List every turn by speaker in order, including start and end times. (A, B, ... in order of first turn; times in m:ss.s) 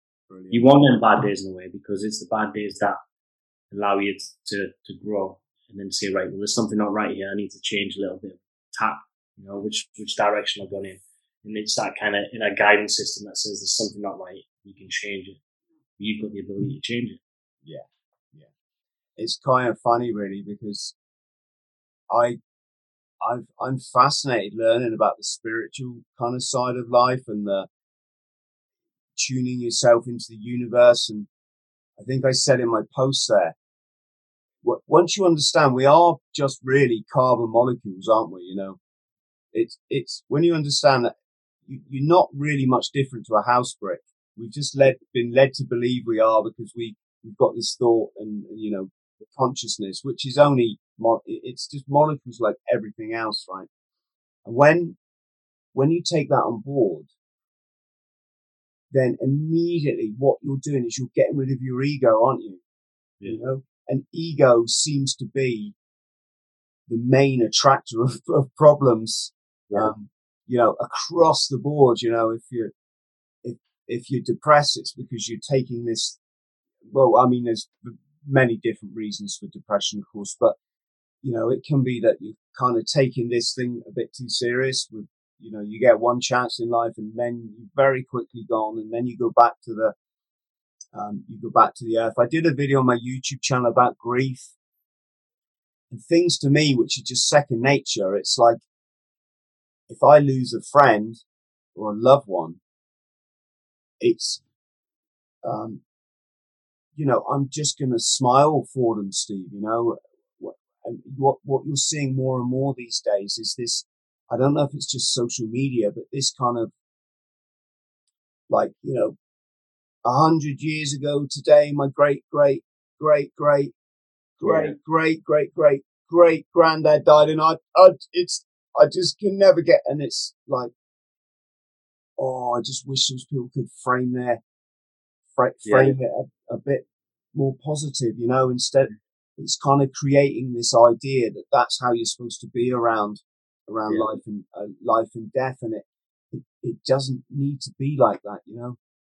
0:00.3-0:00.7 A
0:00.5-0:03.0 B
0:03.7-0:15.4 B
0:16.0-0:17.2 B
0:17.6-0:18.5 A
0:19.2-0:21.0 A
0:22.1-0:22.4 A
0:23.2-0:27.7 A
0:29.2-0:31.3 A
0:32.0-0:33.5 A
0:34.6-0:38.8 A
0:39.5-0:41.1 A
0:41.6-0:53.7 A
0:54.4-0:55.0 A
0:55.7-0:57.1 A
0:58.9-1:02.6 A
1:03.2-1:05.8 A
1:06.9-1:12.7 A
1:13.4-1:16.2 A
1:16.9-1:20.6 A
1:21.2-1:29.9 A
1:30.9-1:34.6 A
1:35.9-1:38.6 A
1:39.9-1:41.2 A
1:41.8-1:42.6 A
1:44.0-1:44.4 A
1:45.4-1:45.8 A
1:47.0-1:56.7 A
1:58.5-1:59.2 A
2:00.0-2:03.7 A
2:04.4-2:10.7 A
2:04.4-2:04.8 B
2:12.2-2:14.4 A
2:15.4-2:28.8 A
2:15.6-2:16.0 B